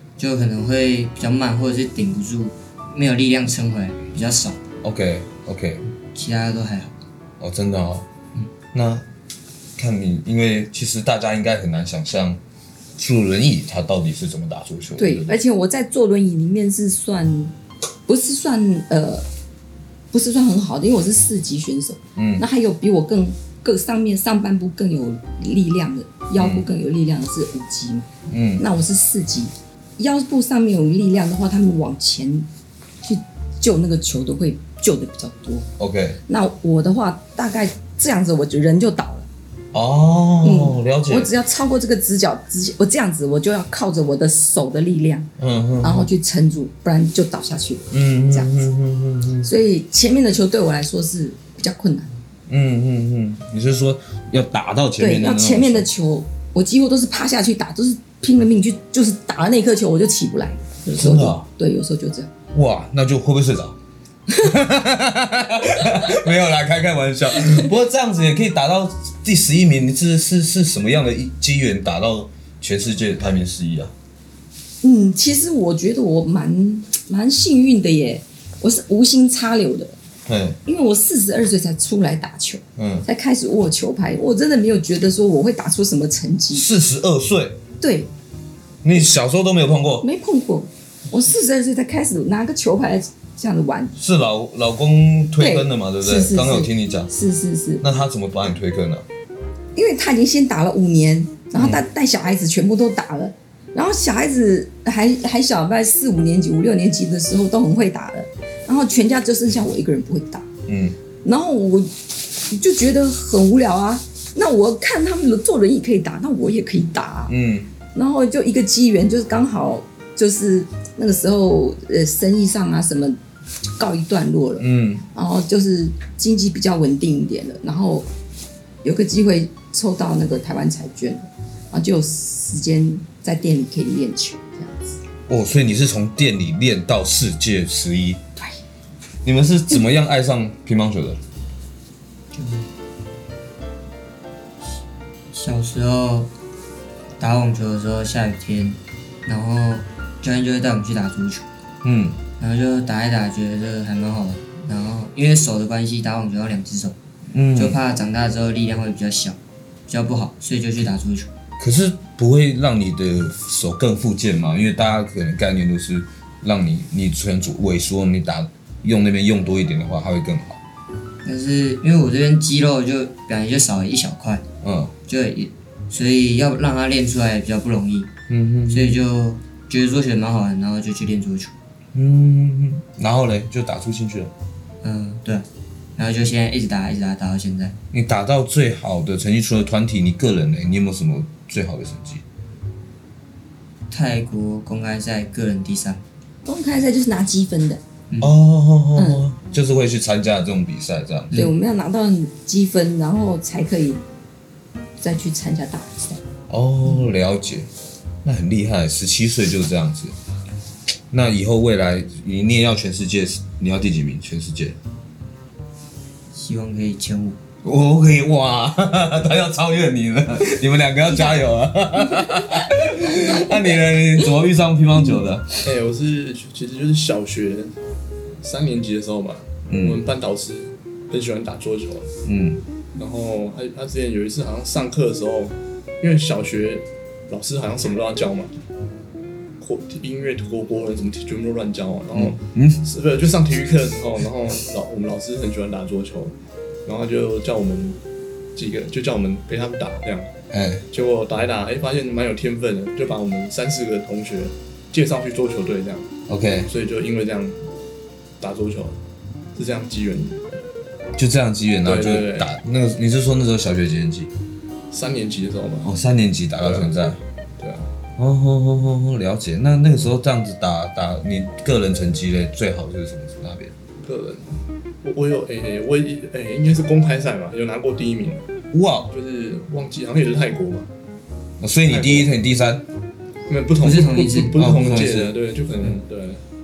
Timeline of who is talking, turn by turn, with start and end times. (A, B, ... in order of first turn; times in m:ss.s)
0:00.2-0:04.6 A
0:04.8-0:05.8 B
0:06.1-0:06.9 A
0:07.4-0:08.0 B
0:08.7-0:09.0 B
0:09.8-0:12.4 B
0:13.0-0:15.4 B
0:15.0-0:17.5 C
0:18.1-0:19.2 C
0:20.1-0:32.5 C
0:22.2-0:22.4 B
0:26.4-0:26.6 B
0:28.3-0:28.6 B
0:33.0-0:35.7 C
0:35.8-0:36.2 B
0:36.3-0:39.3 C
0:39.7-0:41.3 B
0:40.4-0:45.3 C
0:45.4-0:46.1 B
0:45.8-0:48.5 C
0:47.9-0:49.5 B
0:49.4-0:52.1 C
0:52.5-0:55.9 B
0:55.0-1:02.3 C
1:00.9-1:01.4 B
1:02.5-1:03.8 B
1:04.4-1:13.9 B
1:05.7-1:06.0 C
1:14.8-1:20.0 C
1:20.3-1:20.6 B
1:20.6-1:26.7 C
1:22.8-1:23.1 B
1:26.5-1:27.6 B
1:27.8-1:28.1 C
1:28.8-1:30.0 B
1:30.0-1:33.9 C
1:34.0-1:37.1 B
1:35.4-1:37.8 C
1:37.8-1:39.0 B
1:39.7-1:50.5 C
1:41.6-1:41.8 B
1:50.7-1:51.0 B
1:51.2-1:51.9 C
1:52.4-1:57.3 C
1:57.3-1:57.7 B
1:57.9-2:03.2 C
2:03.8-2:08.1 C
2:04.6-2:05.0 B
2:08.8-2:15.0 C
2:15.3-2:18.2 B
2:19.2-2:21.2 B
2:22.3-2:22.7 A
2:25.3-2:26.3 A
2:27.2-2:31.4 A
2:31.8-2:32.2 B
2:32.4-2:37.0 A
2:37.3-2:37.8 B
2:37.5-2:39.4 A
2:39.9-2:41.3 A
2:41.6-2:50.6 B
2:51.2-2:54.4 A
2:54.6-2:54.9 B
2:55.1-2:58.1 A
2:58.3-2:59.0 B
2:58.7-3:01.5 A
3:01.9-3:04.3 B
3:04.8-3:05.4 A
3:06.0-3:07.7 A
3:07.9-3:12.2 B
3:13.9-3:16.0 A
3:16.4-3:17.8 C
3:18.2-3:21.3 B
3:19.0-3:19.2 C
3:21.3-3:24.0 C
3:25.0-3:26.2 C
3:26.5-3:27.7 B
3:28.2-3:30.1 B
3:31.1-3:34.8 B
3:36.3-3:37.4 A
3:37.6-3:45.6 B
3:42.2-3:43.6 C
3:45.6-3:47.8 D
3:48.4-3:52.1 D
3:49.7-3:50.0 B
3:52.2-3:52.6 B
3:52.9-3:58.5 D
3:59.6-4:08.0 D
4:02.1-4:02.8 B
4:08.5-4:10.3 D
4:10.5-4:10.8 B
4:10.9-4:16.1 D
4:16.3-4:16.7 B
4:16.6-4:17.6 D
4:18.4-4:19.0 D
4:19.5-4:20.4 D
4:21.2-4:24.3 B
4:21.8-4:22.5 D
4:24.9-4:25.9 D
4:25.8-4:27.2 B
4:26.6-4:27.9 D
4:28.2-4:33.7 B
4:34.0-4:38.4 D
4:38.7-4:39.1 B
4:39.1-4:40.9 D
4:41.6-4:42.8 B
4:41.8-4:42.3 D
4:43.5-4:46.4 D
4:43.8-4:44.8 A
4:44.6-4:45.3 B